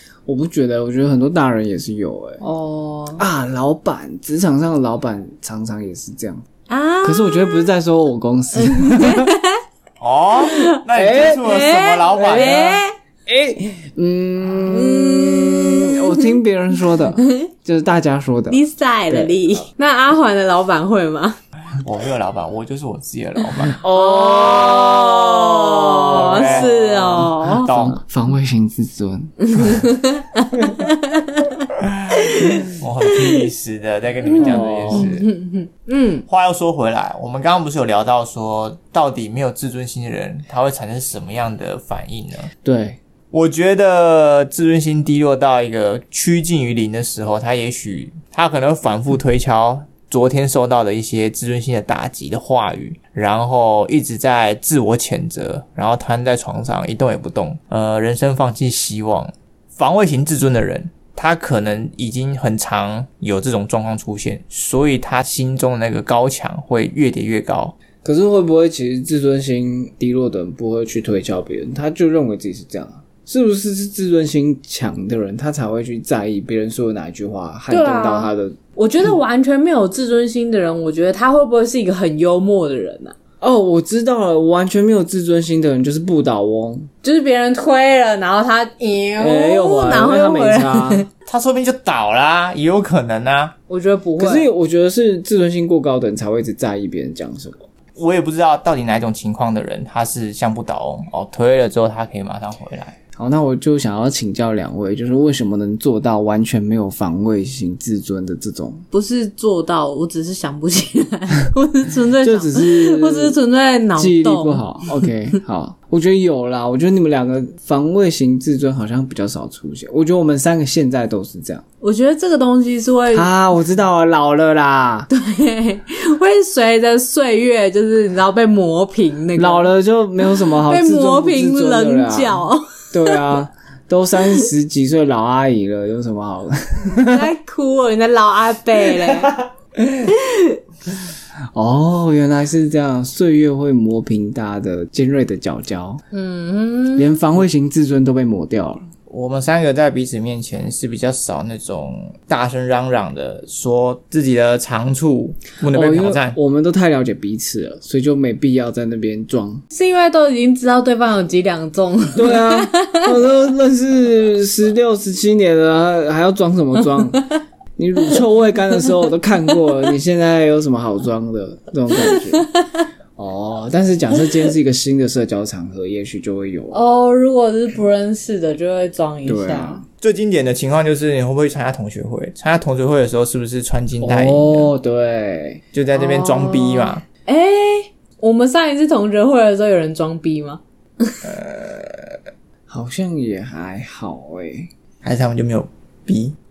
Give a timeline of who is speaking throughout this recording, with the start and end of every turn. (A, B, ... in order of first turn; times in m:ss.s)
0:00.2-0:02.4 A
0:02.4-0:03.2 B
0:03.2-0:06.4 A
0:06.7-0:07.7 B
0:07.0-0:09.3 A
0:08.6-0:09.6 B
0:10.0-0:12.7 C
0:10.4-0:12.9 B
0:10.9-0:11.5 A
0:12.1-0:19.7 A
0:14.7-0:16.4 B
0:17.2-0:17.5 B
0:18.5-0:21.4 B
0:21.8-0:23.8 C
0:23.7-0:29.9 A
0:23.9-0:27.7 B
0:26.1-0:28.0 C
0:29.5-0:31.6 B
0:31.8-0:35.3 C
0:32.1-0:33.4 B
0:34.3-0:36.2 B
0:34.4-0:35.1 A
0:36.3-0:42.5 C
0:42.6-0:43.0 A
0:43.3-1:07.8 C
1:08.0-1:18.6 A
1:17.7-1:23.2 B
1:23.4-1:26.9 A
1:27.0-1:31.1 B
1:29.2-1:31.0 A
1:31.2-1:33.5 C
1:33.7-1:34.5 B
1:34.2-1:37.6 A
1:38.0-1:43.0 C
1:43.2-1:48.8 A
1:48.9-1:55.1 B
1:52.2-1:53.3 A
1:54.0-2:01.6 A
2:01.8-2:03.3 B
2:03.1-2:05.1 A
2:05.1-2:09.7 B
2:09.4-2:17.3 A
2:10.3-2:13.2 B
2:17.0-2:19.3 B
2:19.8-2:20.1 A
2:20.1-2:20.6 B
2:21.5-2:26.0 A
2:26.1-2:27.2 B
2:27.0-2:28.8 A
2:29.1-2:36.4 C
2:35.7-2:39.6 A
2:39.7-2:43.1 B
2:42.2-2:52.5 A
2:52.0-2:52.4 B
2:53.2-2:56.8 A
2:56.7-2:59.8 B
2:59.2-2:59.8 A
3:00.0-3:04.7 C
3:04.0-3:05.6 A
3:05.7-3:07.0 C
3:05.9-3:11.2 B
3:11.2-3:12.2 C
3:12.7-3:14.7 A
3:15.0-3:16.4 C